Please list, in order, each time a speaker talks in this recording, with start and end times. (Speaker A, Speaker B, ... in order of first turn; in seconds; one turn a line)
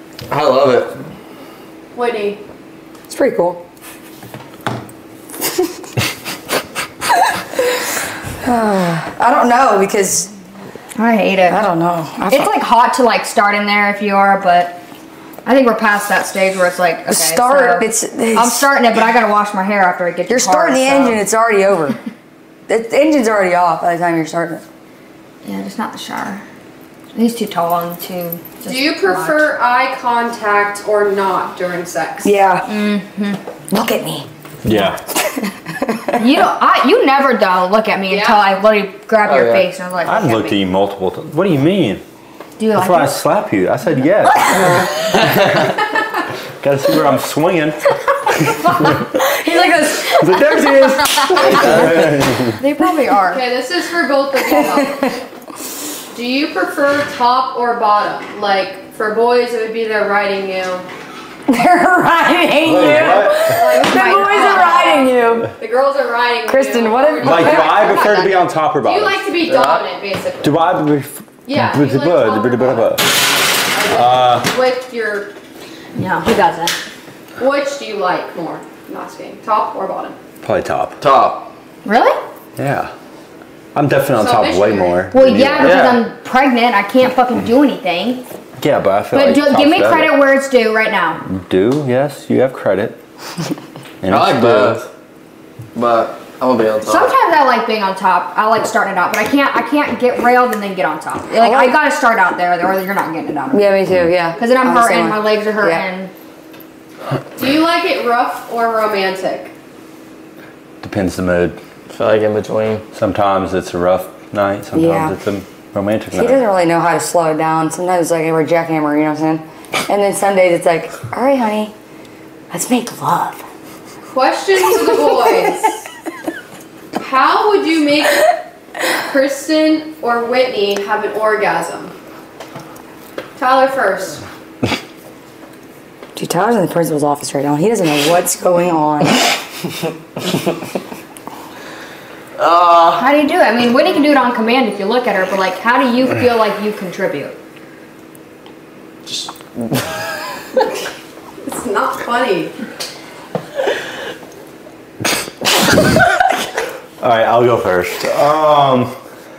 Speaker A: 0.3-1.0
Speaker B: 1.9-2.4
Speaker C: 3.1-3.6
Speaker C: 8.4-10.3
Speaker D: 10.9-11.6
Speaker C: 11.5-12.5
Speaker D: 12.3-14.8
Speaker D: 15.4-21.2
Speaker C: 17.1-18.7
Speaker C: 20.3-22.0
Speaker C: 22.7-24.6
Speaker D: 25.4-26.4
Speaker D: 27.1-29.5
Speaker B: 28.6-32.3
Speaker C: 32.2-32.7
Speaker D: 32.6-33.4
Speaker C: 33.7-34.3
Speaker E: 34.6-35.0
Speaker C: 35.3-36.2
Speaker D: 36.2-40.6
Speaker B: 38.1-38.5
Speaker A: 39.2-39.7
Speaker E: 40.0-42.0
Speaker D: 42.6-43.1
Speaker E: 42.7-45.9
Speaker E: 46.6-47.8
Speaker E: 48.4-49.0
Speaker D: 48.6-49.0
Speaker C: 49.2-50.2
Speaker E: 50.0-52.6
Speaker A: 51.4-52.2
Speaker D: 51.4-51.9
Speaker D: 52.6-53.4
Speaker B: 53.3-55.1
Speaker C: 54.8-55.1
Speaker B: 56.1-60.9
Speaker C: 61.5-65.5
Speaker E: 62.6-63.6
Speaker B: 63.0-70.6
Speaker D: 63.6-65.2
Speaker C: 66.5-67.6
Speaker E: 67.2-69.3
Speaker D: 67.4-68.3
Speaker A: 69.4-69.8
Speaker E: 70.4-73.0
Speaker B: 71.5-73.1
Speaker B: 73.7-75.3
Speaker E: 73.9-74.5
Speaker D: 76.0-76.7
Speaker B: 77.4-80.2
Speaker E: 80.4-81.0
Speaker A: 81.0-81.5
Speaker D: 81.8-82.2
Speaker E: 82.6-82.9
Speaker E: 83.7-86.0
Speaker B: 84.2-85.0
Speaker D: 85.1-88.2
Speaker A: 85.6-86.0
Speaker E: 88.6-90.2
Speaker D: 89.1-91.2
Speaker E: 91.2-93.0
Speaker E: 94.0-94.8
Speaker A: 94.1-94.9
Speaker A: 95.7-97.1
Speaker D: 96.8-103.7
Speaker C: 101.4-101.8
Speaker C: 103.5-105.8
Speaker D: 104.4-106.1
Speaker B: 107.3-109.5
Speaker E: 110.8-111.6
Speaker A: 111.9-112.8
Speaker E: 112.9-116.4
Speaker C: 114.7-115.1
Speaker C: 116.1-121.7
Speaker C: 122.5-123.4
Speaker B: 124.0-125.8
Speaker B: 127.0-128.3
Speaker B: 129.1-131.9
Speaker B: 133.4-134.2
Speaker C: 136.2-139.3
Speaker A: 142.4-143.1
Speaker D: 142.9-147.3
Speaker A: 149.1-150.0
Speaker B: 151.4-152.5
Speaker E: 157.0-158.9